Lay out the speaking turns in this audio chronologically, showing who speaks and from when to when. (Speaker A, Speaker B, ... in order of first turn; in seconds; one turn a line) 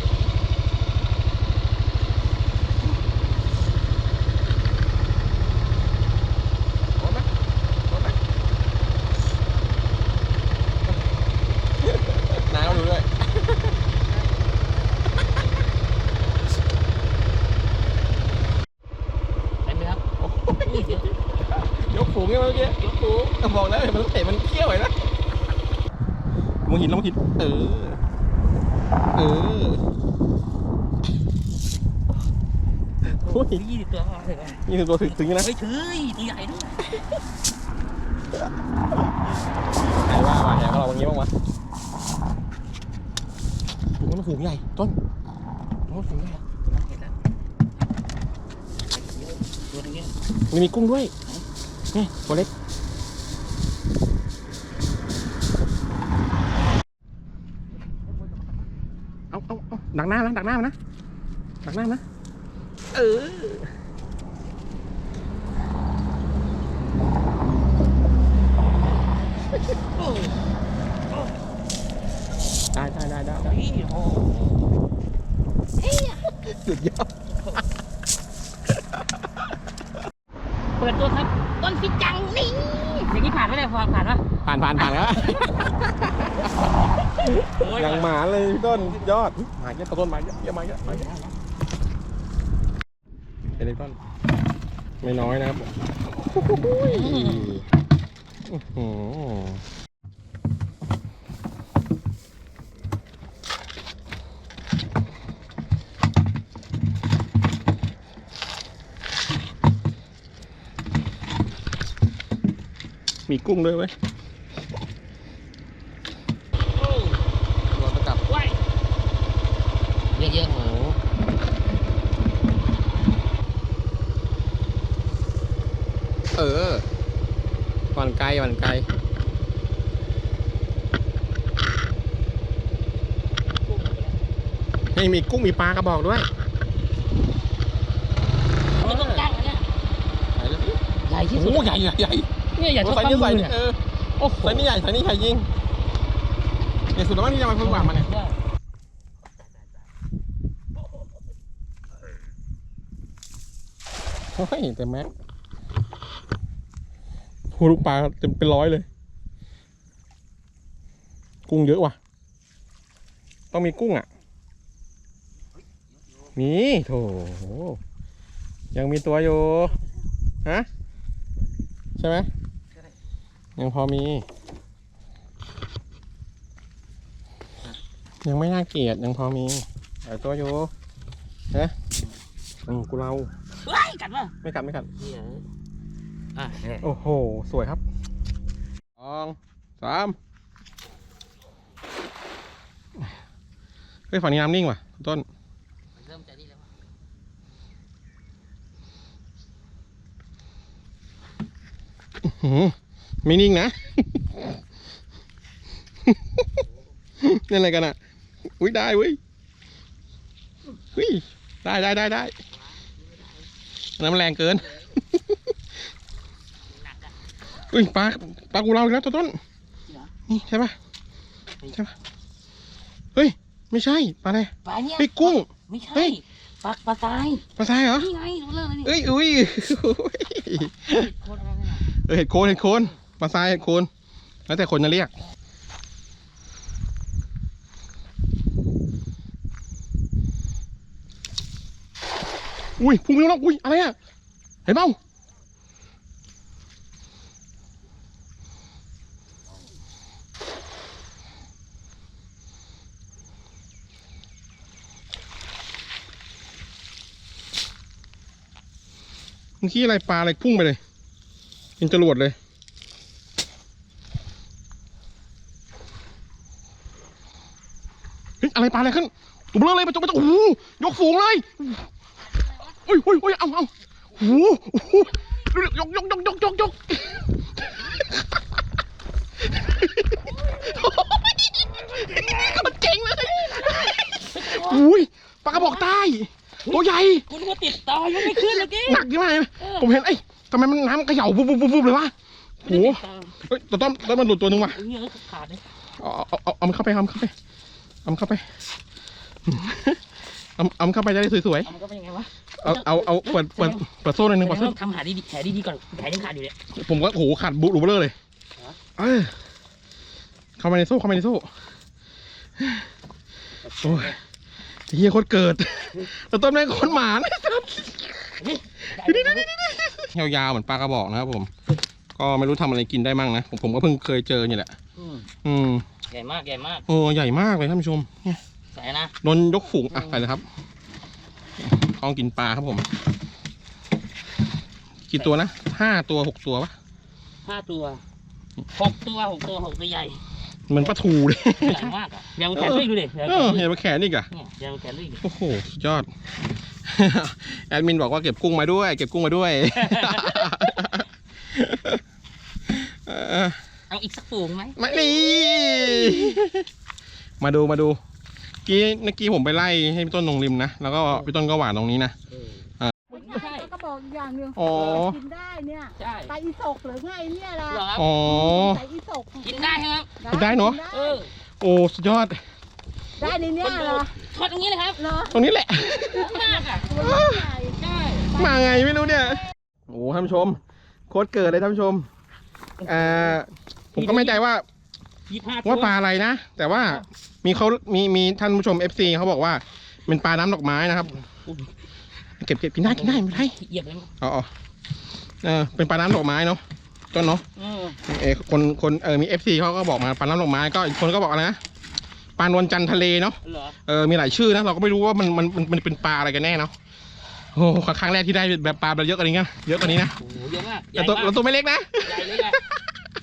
Speaker A: 7.0-7.2
Speaker A: 11.9-13.6
Speaker B: 19.6-21.1
Speaker A: 20.2-21.0
Speaker A: 21.5-22.8
Speaker B: 22.4-23.4
Speaker A: 23.4-24.9
Speaker A: 26.6-28.0
Speaker A: 29.1-29.8
Speaker A: 33.1-33.6
Speaker B: 33.2-36.9
Speaker A: 34.6-35.5
Speaker A: 39.8-41.3
Speaker A: 44.0-44.9
Speaker A: 45.9-46.4
Speaker B: 46.4-47.1
Speaker B: 48.9-50.1
Speaker A: 50.5-51.1
Speaker A: 51.9-52.5
Speaker A: 59.3-60.7
Speaker A: 61.6-62.0
Speaker A: 62.9-63.7
Speaker B: 70.0-70.4
Speaker A: 72.7-73.5
Speaker B: 73.4-74.7
Speaker B: 75.8-76.3
Speaker A: 76.4-77.1
Speaker B: 77.3-77.6
Speaker B: 80.8-84.2
Speaker A: 84.4-86.3
Speaker B: 84.8-85.5
Speaker A: 87.0-91.1
Speaker B: 87.5-89.0
Speaker B: 90.8-91.3
Speaker A: 93.6-94.0
Speaker A: 95.0-97.6
Speaker B: 96.7-97.6
Speaker A: 98.5-99.6
Speaker A: 113.3-113.9
Speaker B: 116.7-117.2
Speaker A: 117.7-118.2
Speaker B: 118.2-118.6
Speaker B: 120.1-121.0
Speaker A: 126.3-126.8
Speaker A: 127.9-128.8
Speaker B: 133.7-134.1
Speaker A: 134.9-136.3
Speaker B: 138.7-139.7
Speaker A: 138.8-139.2
Speaker A: 140.3-140.8
Speaker B: 141.0-141.8
Speaker A: 141.3-142.3
Speaker B: 142.5-143.6
Speaker A: 142.8-145.5
Speaker B: 144.3-144.7
Speaker A: 146.9-148.1
Speaker B: 147.6-148.4
Speaker A: 154.3-155.1
Speaker A: 157.6-158.8
Speaker A: 161.5-162.0
Speaker A: 163.5-164.1
Speaker A: 166.3-167.8
Speaker A: 168.7-169.8
Speaker A: 172.0-172.3
Speaker A: 173.6-174.2
Speaker A: 178.2-180.7
Speaker A: 182.7-183.3
Speaker B: 183.6-184.3
Speaker A: 184.4-184.9
Speaker B: 185.0-185.4
Speaker B: 186.3-186.9
Speaker A: 186.8-187.8
Speaker A: 189.0-190.2
Speaker A: 194.1-195.2
Speaker B: 195.9-196.7
Speaker A: 202.2-204.4
Speaker A: 206.1-206.4
Speaker A: 207.2-208.0
Speaker A: 208.6-209.2
Speaker A: 210.9-212.3
Speaker B: 212.5-213.5
Speaker A: 214.0-215.4
Speaker B: 216.7-217.2
Speaker A: 217.7-219.4
Speaker A: 220.3-220.7
Speaker A: 221.7-221.9
Speaker A: 223.1-226.1
Speaker B: 224.6-229.0
Speaker A: 227.6-228.1
Speaker A: 228.8-231.1
Speaker B: 230.7-231.9
Speaker A: 232.0-233.9
Speaker B: 232.4-232.9
Speaker A: 234.5-235.1
Speaker A: 242.8-243.9
Speaker A: 244.7-245.0
Speaker A: 259.6-260.8
Speaker A: 261.8-262.4
Speaker A: 268.4-271.9
Speaker A: 272.7-278.2
Speaker A: 279.5-287.3
Speaker B: 281.9-282.7
Speaker B: 283.6-284.9
Speaker B: 285.5-285.9
Speaker B: 286.6-289.1
Speaker A: 288.1-292.1
Speaker B: 289.6-289.9
Speaker A: 292.6-294.8
Speaker B: 292.6-293.4
Speaker B: 294.4-295.6
Speaker A: 296.0-297.3
Speaker A: 298.0-298.4
Speaker A: 299.4-300.0
Speaker A: 300.6-301.7
Speaker B: 301.6-306.6
Speaker A: 302.6-304.7
Speaker A: 306.7-308.1
Speaker A: 309.0-309.3
Speaker A: 310.6-311.5
Speaker A: 312.6-312.8
Speaker B: 313.6-314.2
Speaker A: 313.8-314.1
Speaker A: 314.9-321.5
Speaker B: 318.4-319.5
Speaker A: 322.1-324.7
Speaker B: 325.0-325.3
Speaker A: 325.4-325.8
Speaker B: 326.1-326.9
Speaker A: 326.9-328.4
Speaker B: 328.7-329.1
Speaker A: 329.2-330.4
Speaker B: 329.9-330.3
Speaker A: 331.6-332.9
Speaker A: 335.1-336.7
Speaker B: 337.4-338.0
Speaker B: 338.7-340.2
Speaker A: 340.7-341.9
Speaker B: 341.6-343.7
Speaker A: 342.5-344.3
Speaker B: 344.3-345.2
Speaker A: 345.2-346.1
Speaker A: 346.8-352.0
Speaker B: 349.8-350.9
Speaker A: 352.7-353.6
Speaker B: 353.9-354.9
Speaker A: 354.8-356.7
Speaker A: 357.4-358.0
Speaker A: 358.6-362.1
Speaker B: 362.3-363.8
Speaker C: 363.5-367.7
Speaker A: 364.5-365.2
Speaker B: 364.7-365.0
Speaker B: 365.9-366.4
Speaker B: 367.6-368.6
Speaker A: 367.9-368.9
Speaker C: 368.6-369.5
Speaker B: 369.4-370.3
Speaker C: 370.2-370.9
Speaker A: 370.2-370.9
Speaker B: 370.8-371.3
Speaker A: 371.6-372.4
Speaker B: 373.2-375.1
Speaker C: 373.2-374.0
Speaker A: 375.2-377.6
Speaker B: 376.1-377.1
Speaker C: 377.0-377.7
Speaker B: 377.6-378.4
Speaker A: 378.3-382.1
Speaker B: 382.8-383.4
Speaker A: 382.8-384.6
Speaker B: 383.9-384.4
Speaker B: 385.3-385.9
Speaker A: 385.6-391.2
Speaker B: 386.7-387.0
Speaker B: 391.1-391.7
Speaker A: 392.4-393.5
Speaker B: 392.8-394.1
Speaker A: 394.2-394.5
Speaker A: 395.4-396.6
Speaker A: 397.1-397.4
Speaker B: 397.6-398.0
Speaker A: 398.1-401.6
Speaker A: 402.4-406.7
Speaker B: 403.4-403.8
Speaker A: 407.5-410.1
Speaker B: 409.8-411.4
Speaker A: 410.9-412.8
Speaker B: 412.0-412.6